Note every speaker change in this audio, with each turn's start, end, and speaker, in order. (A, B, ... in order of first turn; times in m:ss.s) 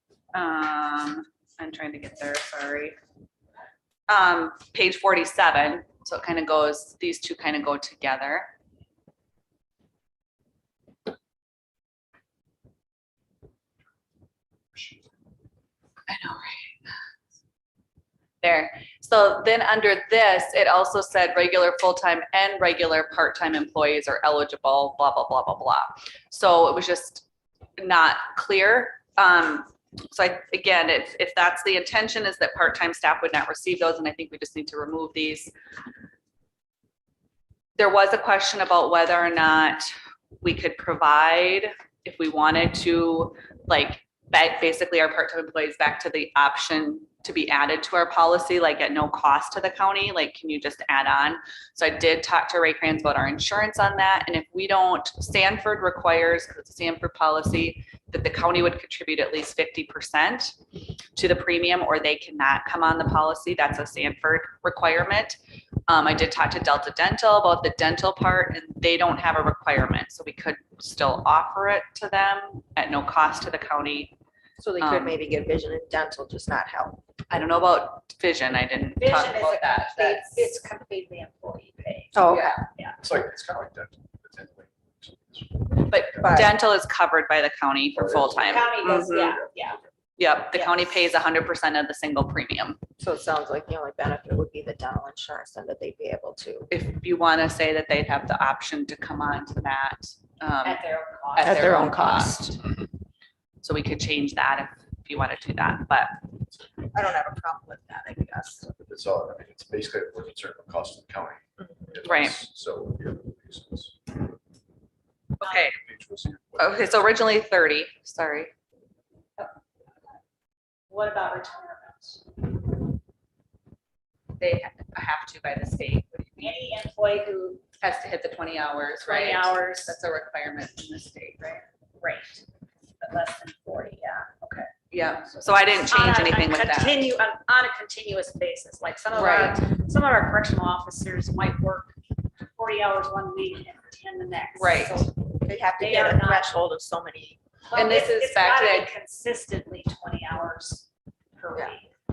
0:00.3-0:03.0 A
0:04.1-0:08.5 A
0:16.1-0:16.8 A
0:18.4-0:27.2 A
0:27.8-0:35.5 A
0:37.8-0:39.9 A
0:40.4-1:00.5 A
1:01.2-1:14.1 A
1:14.6-1:17.0 B
1:14.8-1:15.2 A
1:17.3-1:20.5 A
1:19.0-1:23.0 C
1:22.1-1:22.5 B
1:22.3-1:22.6 A
1:23.0-1:26.2 D
1:25.9-1:29.4 A
1:26.2-1:26.6 B
1:27.9-1:28.6 D
1:28.3-1:29.8 C
1:30.2-1:32.8 A
1:33.0-1:36.7 B
1:36.7-1:40.8 A
1:40.6-1:41.9 C
1:41.3-1:42.6 A
1:41.4-1:42.6 B
1:43.6-1:46.2 A
1:46.9-1:48.6 B
1:48.7-1:54.3 D
1:52.0-1:52.4 A
1:55.4-1:55.8 A
1:55.7-1:57.3 D
1:56.6-1:58.5 A
2:00.9-2:02.4 C
2:04.4-2:06.5 A
2:06.4-2:07.6 C
2:07.8-2:11.6 A
2:09.0-2:10.0 C
2:11.4-2:12.4 C
2:13.0-2:14.7 C
2:14.9-2:17.0 A
2:15.7-2:25.2 C
2:19.1-2:19.6 A
2:24.5-2:25.0 A
2:25.4-2:27.4 B
2:25.8-2:26.5 C
2:27.7-2:30.8 C
2:27.7-2:28.9 A
2:31.4-2:31.9 C